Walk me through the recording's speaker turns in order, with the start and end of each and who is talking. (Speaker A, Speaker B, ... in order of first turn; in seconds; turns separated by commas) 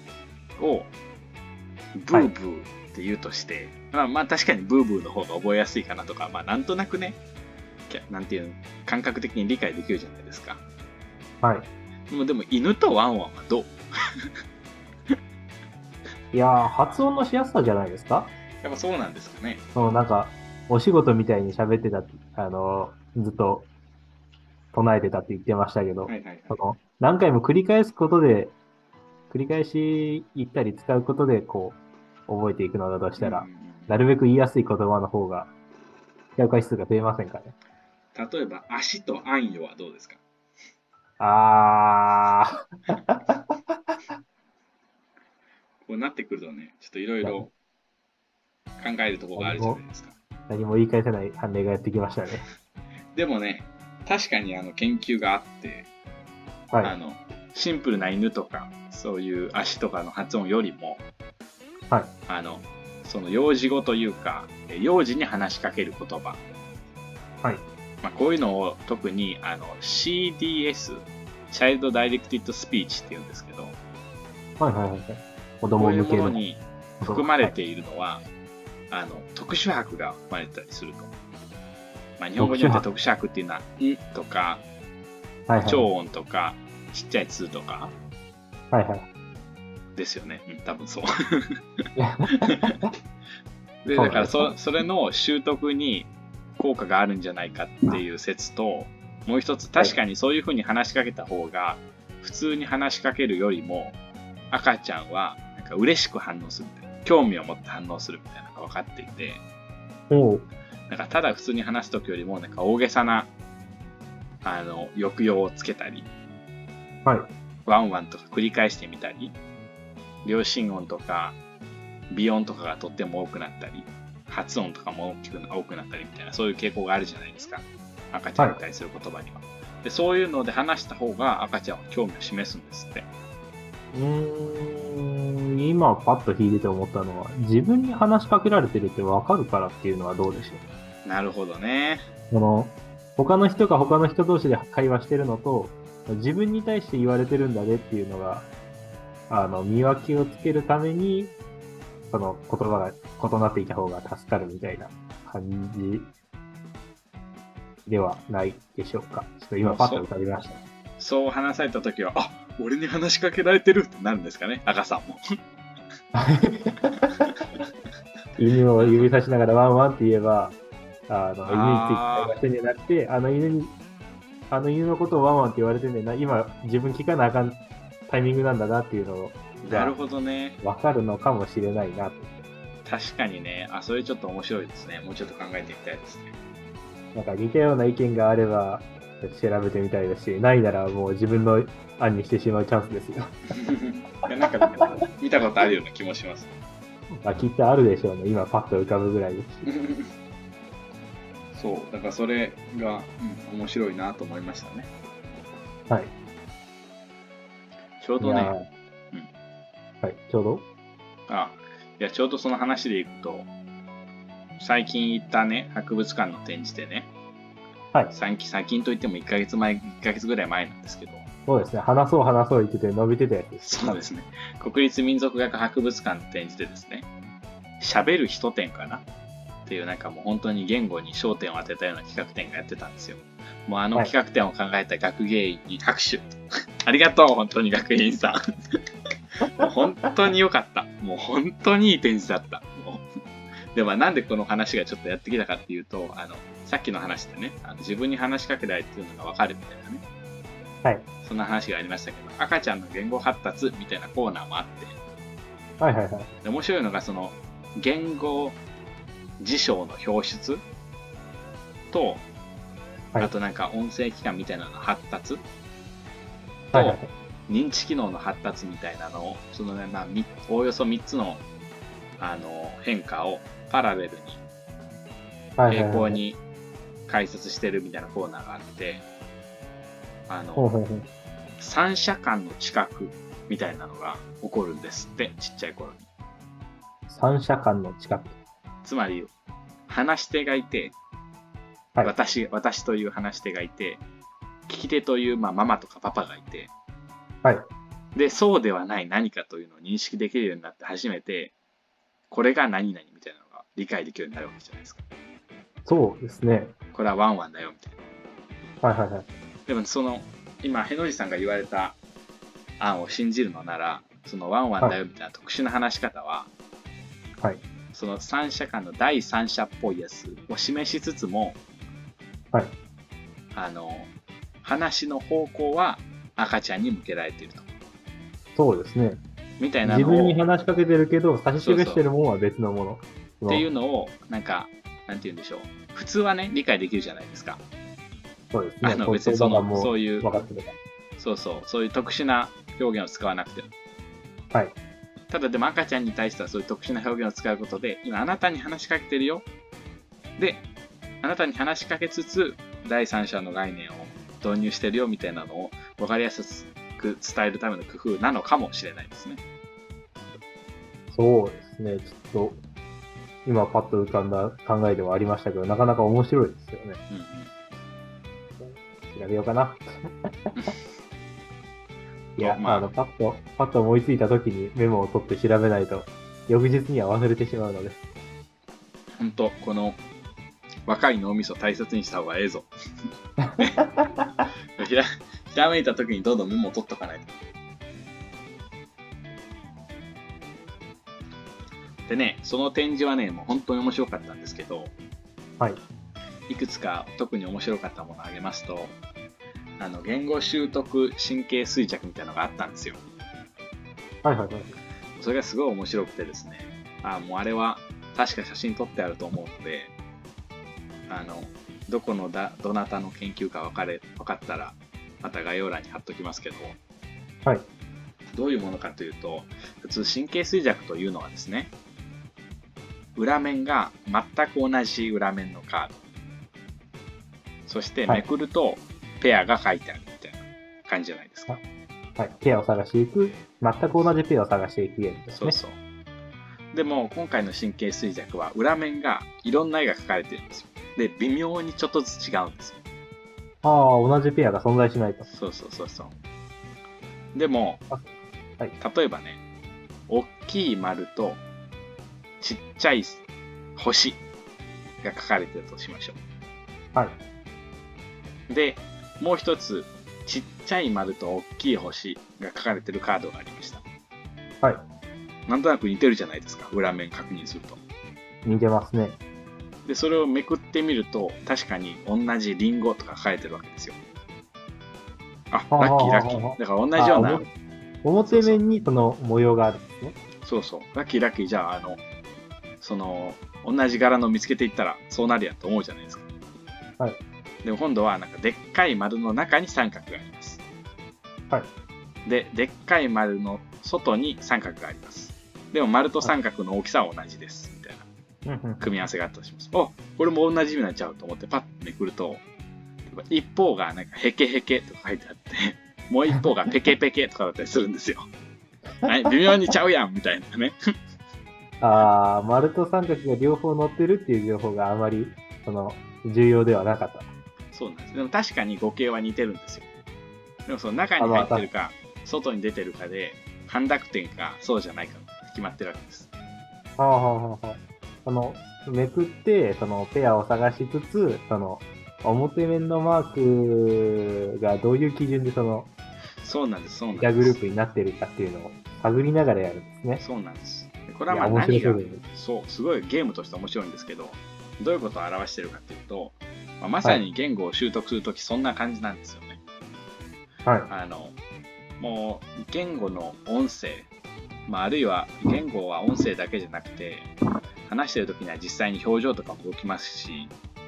Speaker A: 0.6-0.9, Speaker A: 2.0-7.2, Speaker A: 7.9-10.6, Speaker B: 11.4-11.7, Speaker A: 12.1-14.3, Speaker B: 16.3-18.3, Speaker A: 18.6-19.6, Speaker B: 19.7-23.7, Speaker B: 24.7-28.5, Speaker A: 26.1-26.6, Speaker B: 29.3-35.5, Speaker A: 33.2-33.9, Speaker B: 36.4-37.5, Speaker A: 38.1-40.2, Speaker B: 41.2-43.6, Speaker A: 45.8-47.5, Speaker B: 47.2-47.5, Speaker A: 48.8-50.1, Speaker B: 49.4-49.8, Speaker B: 50.5-52.5, Speaker A: 53.1-55.9, Speaker A: 56.8-61.0, Speaker A: 62.3-66.4, Speaker A: 68.0-73.8, Speaker B: 74.6-76.4, Speaker A: 75.8-78.2, Speaker B: 77.0-77.5, Speaker A: 78.9-81.1, Speaker A: 82.2-84.6, Speaker B: 82.4-82.8, Speaker B: 85.5-85.9, Speaker A: 85.6-87.9, Speaker B: 88.7-89.0, Speaker A: 90.0-91.6, Speaker B: 92.0-92.9, Speaker A: 93.8-104.0, Speaker B: 93.9-94.5, Speaker A: 104.5-109.4, Speaker B: 110.1-110.5, Speaker A: 110.9-113.3, Speaker A: 114.4-116.1, Speaker A: 117.7-119.3, Speaker A: 120.2-121.4, Speaker A: 122.1-133.1, Speaker B: 133.9-140.6, Speaker A: 141.0-142.0, Speaker B: 142.3-148.5, Speaker B: 149.3-151.3, Speaker B: 152.1-156.1, Speaker B: 157.8-160.6, Speaker A: 159.6-160.0, Speaker A: 161.0-165.2, Speaker B: 166.1-167.3, Speaker B: 168.4-170.6, Speaker A: 168.8-169.1, Speaker B: 171.1-173.7, Speaker A: 171.5-172.3, Speaker B: 174.5-179.9, Speaker A: 179.6-180.6, Speaker B: 180.6-182.4, Speaker A: 182.8-186.3, Speaker B: 187.1-193.3, Speaker A: 193.5-196.5, Speaker B: 197.2-199.7, Speaker A: 199.6-200.1, Speaker A: 201.5-204.9, Speaker A: 208.0-208.5, Speaker B: 208.2-208.7, Speaker B: 210.0-210.7, Speaker A: 211.3-213.5, Speaker A: 214.6-217.1, Speaker A: 218.1-221.2, Speaker B: 221.5-224.0, Speaker A: 223.6-227.1, Speaker A: 227.8-229.0, Speaker A: 229.7-238.4, Speaker A: 239.4-243.0, Speaker A: 243.7-250.0, Speaker A: 251.2-254.9, Speaker B: 255.8-256.3, Speaker A: 256.4-258.6, Speaker A: 259.4-260.6, Speaker A: 261.9-262.2, Speaker A: 263.2-265.4, Speaker A: 266.7-271.4, Speaker B: 266.7-267.1, Speaker A: 272.2-274.4, Speaker B: 275.6-276.2, Speaker A: 275.7-276.4, Speaker A: 277.1-279.1, Speaker A: 280.3-280.6, Speaker B: 280.6-281.1, Speaker A: 281.6-286.1, Speaker B: 287.1-288.4, Speaker A: 288.8-289.3, Speaker A: 289.9-290.9, Speaker A: 292.0-294.0, Speaker A: 294.7-296.7, Speaker A: 298.1-301.5, Speaker A: 302.3-305.0, Speaker B: 305.9-306.7, Speaker A: 306.9-308.0, Speaker B: 308.8-309.3, Speaker A: 309.7-312.0, Speaker A: 312.8-316.5, Speaker A: 317.9-321.6, Speaker A: 323.5-324.1, Speaker A: 324.6-327.7, Speaker B: 328.6-329.2, Speaker A: 329.6-330.4, Speaker B: 329.8-333.6, Speaker A: 331.6-332.1, Speaker A: 333.5-337.6, Speaker B: 338.5-340.8, Speaker A: 338.8-340.3, Speaker A: 341.2-343.7, Speaker A: 345.3-349.4, Speaker A: 350.4-350.6, Speaker A: 351.2-359.4, Speaker B: 361.1-362.6, Speaker B: 363.4-367.0, Speaker A: 367.1-367.5, Speaker B: 368.6-369.9, Speaker B: 372.4-378.0, Speaker A: 372.4-372.9, Speaker A: 379.2-380.0, Speaker A: 380.9-382.7, Speaker B: 383.5-384.0, Speaker A: 384.8-387.3, Speaker A: 392.1-394.9, Speaker A: 396.5-398.9, Speaker A: 399.8-403.0, Speaker B: 404.2-404.8, Speaker A: 405.1-409.9, Speaker A: 411.1-416.8, Speaker A: 418.3-421.7, Speaker A: 423.1-426.0, Speaker A: 427.7-431.5, Speaker B: 432.2-435.6, Speaker A: 435.3-435.8, Speaker A: 436.7-442.8, Speaker B: 443.6-445.3, Speaker A: 445.3-446.1, Speaker A: 447.3-447.8, Speaker B: 447.9-448.7, Speaker A: 448.8-449.4, Speaker A: 450.1-451.4, Speaker A: 452.4-453.2, Speaker A: 453.8-454.2, Speaker A: 455.0-456.2, Speaker A: 458.5-463.8, Speaker A: 465.5-467.8, Speaker B: 468.4-469.2, Speaker A: 469.9-474.0, Speaker A: 475.5-477.4, Speaker B: 475.7-477.5, Speaker B: 478.0-480.1, Speaker A: 478.2-478.6, Speaker A: 480.4-482.0, Speaker A: 482.8-486.2, Speaker A: 487.6-490.6, Speaker A: 492.2-498.1, Speaker B: 498.4-498.9, Speaker A: 498.8-502.4, Speaker A: 503.1-508.3, Speaker A: 509.0-510.7, Speaker B: 511.8-517.3, Speaker A: 517.7-519.9, Speaker A: 520.6-526.3, Speaker B: 521.2-521.7, Speaker B: 527.0-535.9, Speaker A: 536.4-537.5, Speaker B: 537.1-540.2, Speaker A: 540.2-549.6, Speaker B: 541.3-542.2, Speaker A: 550.9-551.4, Speaker A: 552.0-554.1, Speaker A: 554.7-557.3, Speaker A: 557.9-560.5